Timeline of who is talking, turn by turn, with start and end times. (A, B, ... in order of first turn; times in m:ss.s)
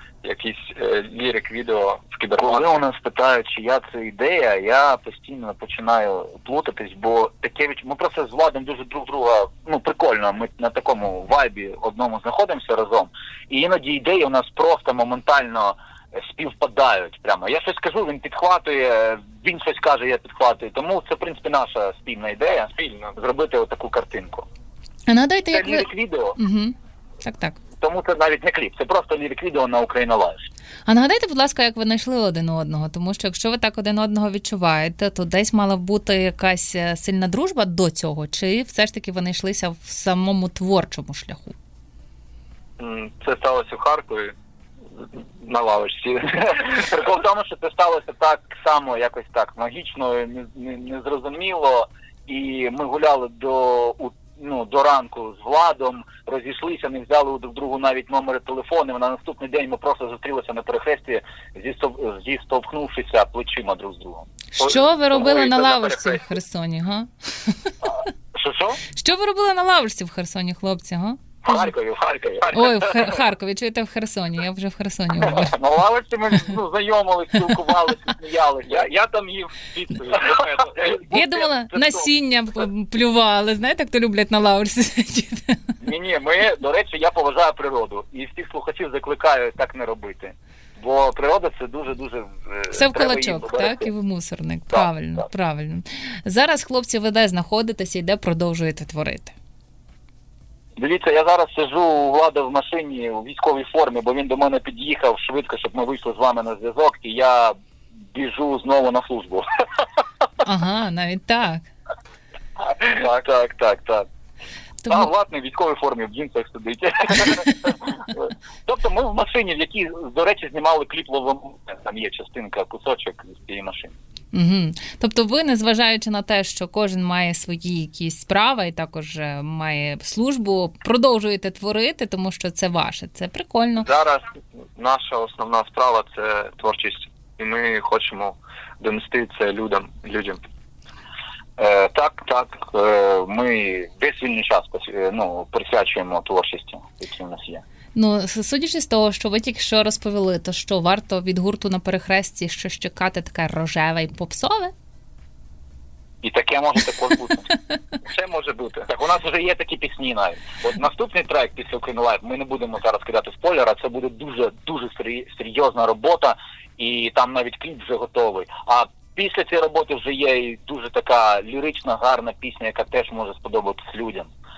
0:00.2-0:02.8 A
0:02.4-0:24.5 B
0:22.7-0:23.2 A
0:25.1-0:27.6 C
0:25.5-0:26.4 B
0:27.8-0:30.5 B
0:30.8-0:41.6 C
0:42.8-0:44.3 A
0:45.0-0:46.7 A
0:46.4-1:04.3 B
1:04.5-1:07.7 C
1:04.6-1:06.2 A
1:08.3-1:08.8 B
1:08.9-1:11.7 C
1:11.4-1:12.6 B
1:12.5-1:15.6 C
1:15.3-1:18.9 B
1:18.7-1:21.0 A
1:20.0-1:22.0 B
1:21.1-1:25.6 C
1:25.8-1:33.9 B
1:32.7-1:39.3 C
1:34.7-1:35.2 B
1:40.8-1:47.5 B
1:48.1-1:49.8 B
1:50.4-1:51.6 C
1:52.6-1:54.0 B
1:54.8-1:55.1 C
1:54.9-2:03.9 B
2:04.3-2:13.9 C
2:13.8-2:20.4 A
2:21.6-2:27.6 B
2:27.9-2:34.7 C
2:36.2-2:37.5 B
2:38.0-2:38.9 A
2:38.9-2:54.3 B